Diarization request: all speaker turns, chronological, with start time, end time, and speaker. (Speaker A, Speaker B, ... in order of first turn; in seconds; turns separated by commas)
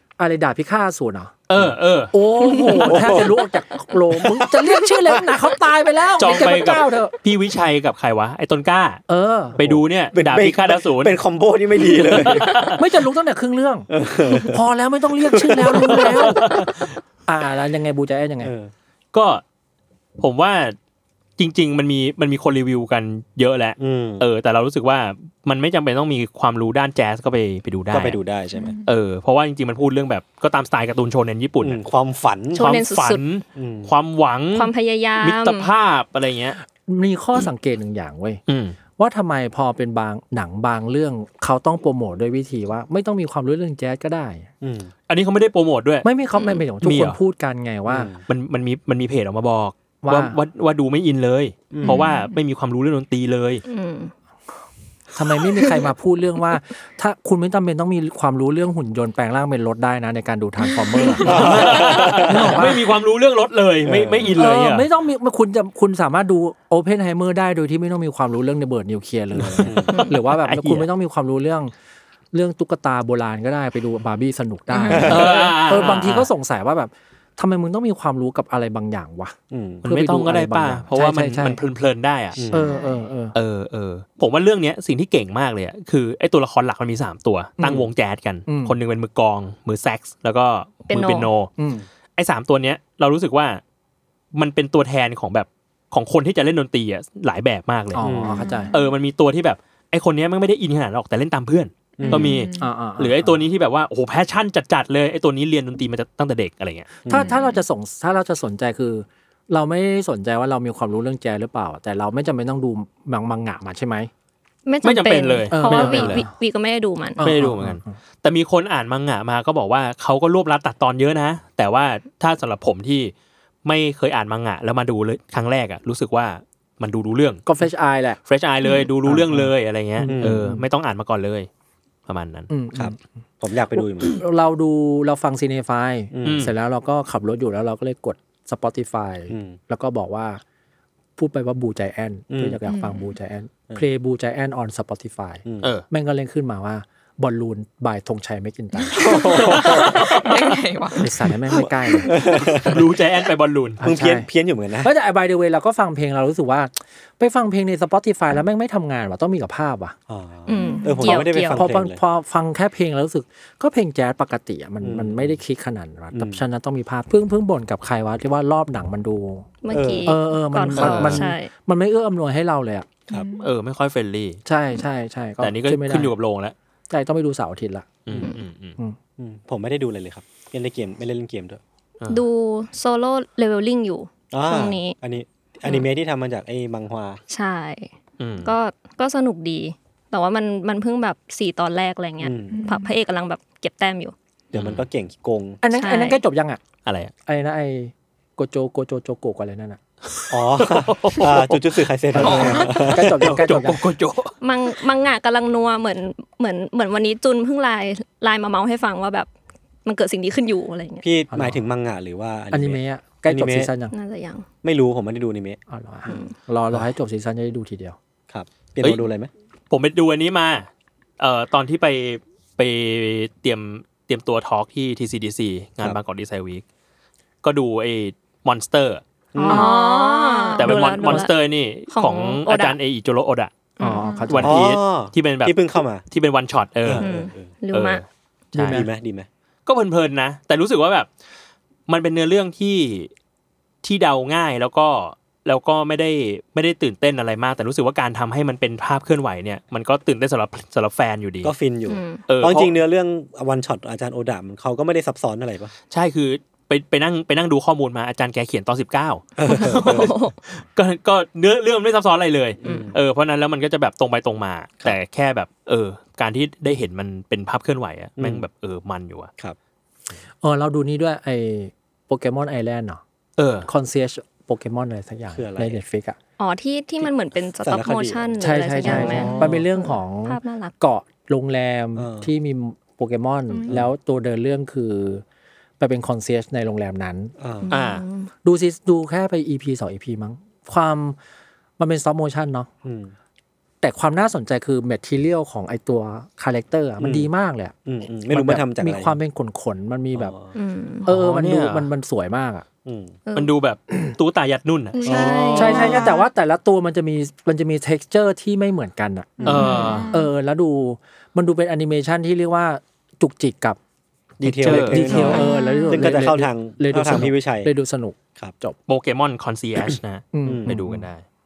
Speaker A: 0.2-1.3, Speaker B: 1.5-2.1, Speaker A: 2.1-7.1, Speaker C: 2.7-3.4, Speaker C: 4.2-4.5, Speaker B: 6.2-9.0, Speaker A: 9.1-9.6, Speaker B: 9.6-11.2, Speaker C: 9.6-12.7, Speaker B: 12.0-12.8, Speaker A: 12.6-16.5, Speaker C: 13.9-14.6, Speaker C: 15.2-16.5, Speaker B: 15.8-16.9, Speaker A: 17.3-18.5, Speaker C: 18.4-18.7, Speaker B: 19.1-19.4, Speaker B: 20.2-20.8, Speaker B: 21.4-28.2, Speaker C: 23.8-24.3, Speaker C: 27.9-28.8, Speaker D: 28.5-28.9, Speaker B: 28.9-31.8, Speaker C: 31.6-32.8, Speaker E: 32.5-33.2, Speaker B: 32.6-36.6, Speaker C: 33.6-33.9, Speaker E: 34.5-35.7, Speaker A: 36.9-38.4, Speaker B: 38.5-38.8, Speaker A: 39.0-44.5, Speaker C: 44.6-44.9, Speaker B: 45.1-46.1, Speaker A: 46.0-48.1, Speaker E: 46.4-46.6, Speaker B: 46.8-47.2, Speaker C: 47.9-48.2, Speaker B: 48.3-53.6, Speaker A: 50.0-50.4, Speaker C: 51.7-52.0, Speaker E: 51.9-52.4, Speaker E: 53.7-54.1, Speaker A: 55.1-62.8, Speaker E: 61.0-61.2, Speaker C: 61.2-62.7, Speaker B: 61.3-64.9, Speaker C: 63.8-64.3, Speaker A: 64.4-71.7, Speaker C: 69.3-70.0, Speaker E: 69.9-70.2, Speaker B: 70.3-70.9, Speaker A: 72.3-81.6, Speaker D: 74.7-75.2, Speaker C: 74.9-75.3, Speaker B: 75.0-76.3, Speaker C: 79.5-79.8, Speaker B: 79.8-82.5, Speaker C: 82.3-82.7, Speaker A: 82.5-83.3, Speaker D: 82.6-83.0, Speaker B: 83.3-91.5, Speaker A: 87.6-87.9, Speaker A: 88.5-88.8, Speaker E: 90.8-91.3, Speaker A: 91.6-91.9, Speaker B: 92.2-93.6, Speaker B: 94.3-106.9, Speaker A: 97.9-98.7, Speaker C: 98.0-98.5, Speaker D: 98.4-98.9, Speaker C: 102.0-102.4, Speaker D: 102.0-102.7, Speaker A: 102.6-103.4, Speaker C: 107.0-107.3, Speaker A: 107.1-114.1, Speaker D: 107.1-107.6, Speaker E: 114.7-117.3, Speaker B: 114.8-116.3, Speaker A: 115.5-116.3, Speaker A: 117.2-118.0, Speaker B: 117.2-123.1, Speaker B: 123.7-127.4, Speaker A: 127.5-128.2, Speaker B: 128.3-131.5, Speaker A: 129.1-130.7, Speaker C: 130.1-130.5, Speaker B: 132.1-132.5, Speaker A: 132.5-133.0, Speaker C: 132.7-134.2, Speaker A: 133.7-140.4, Speaker C: 136.1-136.5, Speaker B: 136.2-136.5, Speaker C: 139.3-139.6, Speaker A: 141.2-149.0, Speaker C: 142.3-142.6, Speaker D: 142.7-143.1, Speaker D: 148.9-152.1, Speaker C: 149.0-150.2, Speaker B: 149.3-150.2, Speaker A: 151.0-152.2, Speaker C: 151.5-152.9, Speaker B: 152.7-153.8, Speaker A: 153.8-154.3, Speaker C: 153.8-154.9, Speaker A: 154.8-159.9, Speaker C: 160.1-162.0, Speaker E: 160.5-161.6, Speaker D: 160.5-160.9, Speaker A: 161.3-169.5, Speaker C: 164.8-165.4, Speaker C: 166.1-166.4, Speaker E: 169.6-171.5, Speaker C: 169.7-170.2, Speaker A: 170.1-172.9, Speaker B: 170.8-171.2, Speaker D: 173.1-173.5, Speaker B: 173.3-174.4, Speaker A: 174.4-176.1, Speaker B: 175.4-176.6, Speaker A: 176.9-177.9, Speaker B: 178.1-178.8, Speaker C: 179.2-181.6, Speaker E: 182.1-184.9, Speaker C: 184.3-187.2, Speaker E: 187.3-187.9, Speaker B: 188.2-188.6, Speaker E: 188.4-194.1, Speaker C: 192.2-192.6, Speaker D: 192.5-192.9, Speaker C: 194.5-195.6, Speaker B: 194.5-194.8, Speaker A: 195.6-196.6, Speaker E: 195.7-196.2, Speaker B: 196.8-197.1, Speaker A: 197.3-199.8, Speaker B: 200.1-201.6, Speaker C: 200.3-203.6, Speaker A: 202.1-203.8, Speaker D: 202.2-202.7, Speaker B: 203.0-204.3, Speaker E: 204.4-209.3, Speaker E: 209.8-211.1, Speaker C: 211.0-213.7, Speaker A: 211.3-211.6, Speaker A: 212.5-213.9, Speaker E: 213.9-214.4, Speaker C: 214.6-215.6, Speaker A: 215.7-218.0, Speaker E: 216.1-216.3, Speaker C: 218.3-219.3, Speaker B: 219.7-226.6, Speaker B: 227.4-229.7, Speaker C: 229.3-229.7, Speaker E: 229.4-231.4, Speaker B: 230.6-233.7, Speaker A: 230.6-231.3, Speaker E: 231.9-232.8, Speaker E: 233.8-234.3, Speaker A: 233.8-234.7, Speaker B: 234.3-237.1, Speaker C: 234.4-236.0, Speaker C: 236.8-237.5, Speaker E: 237.0-238.0, Speaker B: 237.7-238.0, Speaker A: 238.5-238.9, Speaker B: 238.6-238.8, Speaker C: 238.6-239.3, Speaker B: 239.7-241.1, Speaker B: 241.9-243.1, Speaker B: 243.8-251.5, Speaker C: 251.4-255.7, Speaker E: 251.9-252.2, Speaker B: 252.3-252.7, Speaker B: 255.9-269.3, Speaker C: 259.4-260.1, Speaker E: 259.4-260.4, Speaker C: 262.6-262.9, Speaker E: 262.6-262.9, Speaker C: 268.2-268.4, Speaker A: 270.4-273.0, Speaker B: 273.4-273.7, Speaker A: 273.7-276.2, Speaker C: 275.3-275.8, Speaker E: 276.4-280.7, Speaker C: 277.0-279.6, Speaker A: 278.4-285.2, Speaker C: 282.0-282.3, Speaker A: 285.8-287.3, Speaker C: 287.4-287.7, Speaker E: 287.6-288.3, Speaker B: 287.7-288.0, Speaker A: 288.4-291.2, Speaker A: 291.8-292.7, Speaker C: 292.8-293.1, Speaker A: 293.8-297.7, Speaker C: 297.0-297.3, Speaker C: 297.9-299.2, Speaker A: 298.3-300.4, Speaker C: 300.1-300.5, Speaker E: 300.6-301.1, Speaker A: 301.1-302.6, Speaker B: 301.1-301.9, Speaker C: 302.9-303.2, Speaker E: 303.3-303.5, Speaker B: 303.4-305.8, Speaker E: 305.0-306.1, Speaker C: 305.1-305.6, Speaker D: 305.1-306.2, Speaker A: 305.5-309.5, Speaker C: 309.4-309.9, Speaker B: 309.4-310.2, Speaker D: 309.5-310.3, Speaker E: 309.7-310.0, Speaker A: 310.1-313.8, Speaker C: 314.4-317.7, Speaker B: 314.4-315.2, Speaker A: 314.8-318.8, Speaker E: 315.1-316.1, Speaker B: 318.9-321.2, Speaker A: 320.3-321.1, Speaker C: 320.5-320.8